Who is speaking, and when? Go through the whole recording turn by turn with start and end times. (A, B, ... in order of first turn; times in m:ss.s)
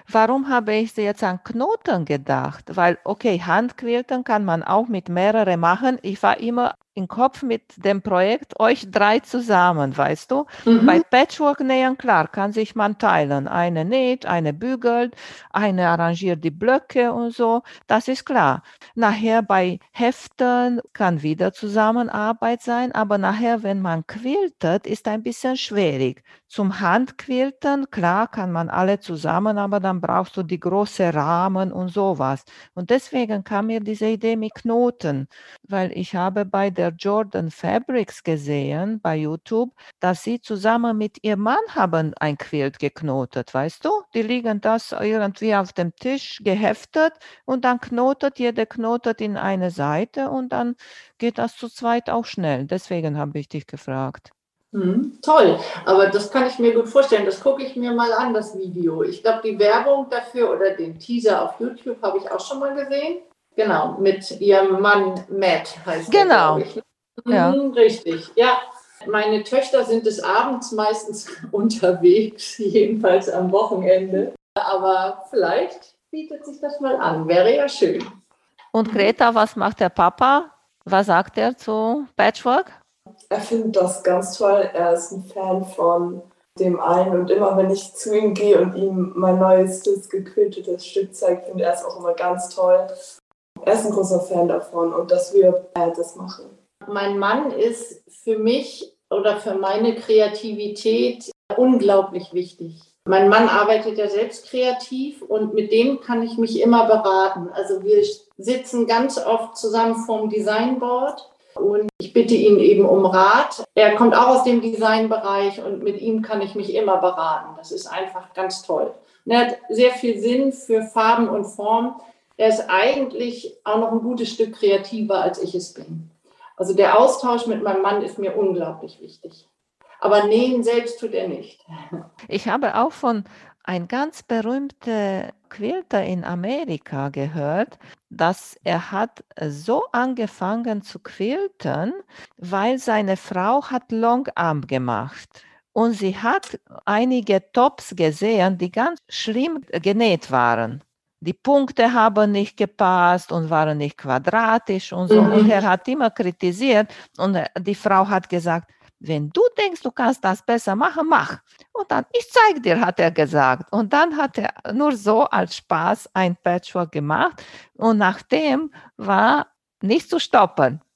0:00.1-0:54.3 A
0:10.6-0:11.0 B
0:54.7-1:18.0 B
1:06.1-1:06.6 A
1:07.3-1:07.6 A
1:18.7-1:22.8 A
1:23.3-1:32.9 C
1:33.6-1:36.6 C
1:36.8-2:09.4 B
2:10.0-2:12.0 B
2:12.3-2:50.8 A
2:35.1-2:35.5 B